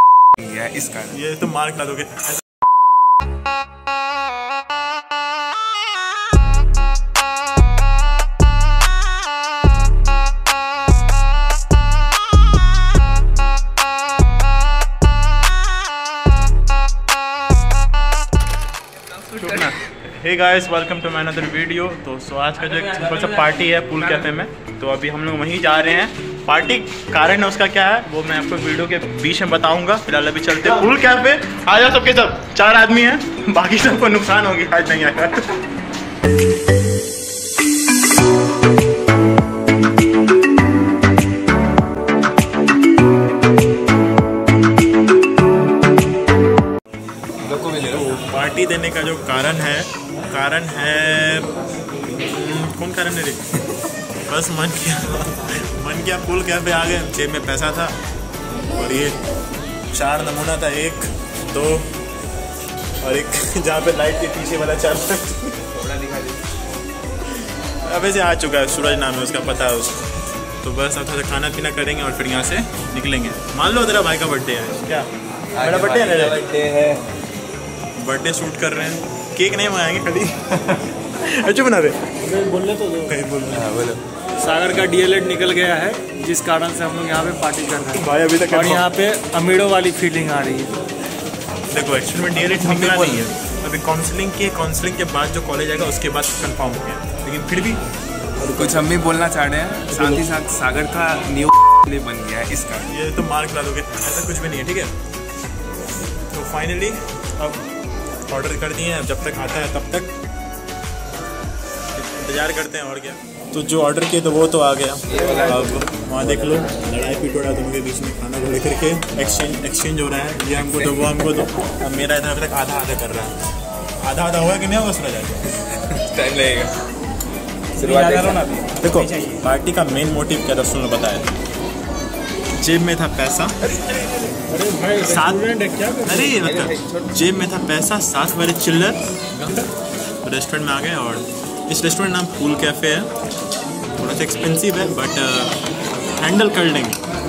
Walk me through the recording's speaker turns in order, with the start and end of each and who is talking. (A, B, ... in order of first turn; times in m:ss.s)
0:00.4-0:01.2 A
0:01.1-0:02.4 B
0:19.4-0:35.6 B
0:47.4-0:48.1 A
0:47.8-0:51.5 B
0:52.1-0:53.4 B
0:54.3-0:58.0 B
0:58.7-0:59.2 B
0:59.9-1:02.0 B
1:03.0-1:05.6 B
1:05.7-1:06.4 A
1:07.8-1:10.1 B
1:10.6-1:16.5 B
1:15.5-1:17.0 A
1:18.0-1:22.2 B
1:22.3-1:22.9 C
1:23.0-1:23.7 B
1:23.5-1:24.0 A
1:24.4-1:30.8 C
1:27.9-1:28.9 B
1:31.7-1:37.8 B
1:32.4-1:33.3 A
1:38.4-1:42.9 A
1:38.5-1:38.8 B
1:39.9-1:40.2 B
1:42.9-1:44.9 B
1:46.3-1:47.7 B
1:48.3-1:50.1 B
1:51.9-2:03.4 B
1:55.1-1:56.7 A
2:00.7-2:01.0 A
2:04.0-2:05.4 B
2:05.6-2:06.7 A
2:07.8-2:08.7 A
2:08.7-2:11.3 B
2:12.6-2:13.6 B
2:14.5-2:16.2 C
2:15.0-2:19.7 B
2:16.3-2:17.1 A
2:20.2-2:23.1 B
2:24.0-2:25.6 B
2:26.2-2:27.0 B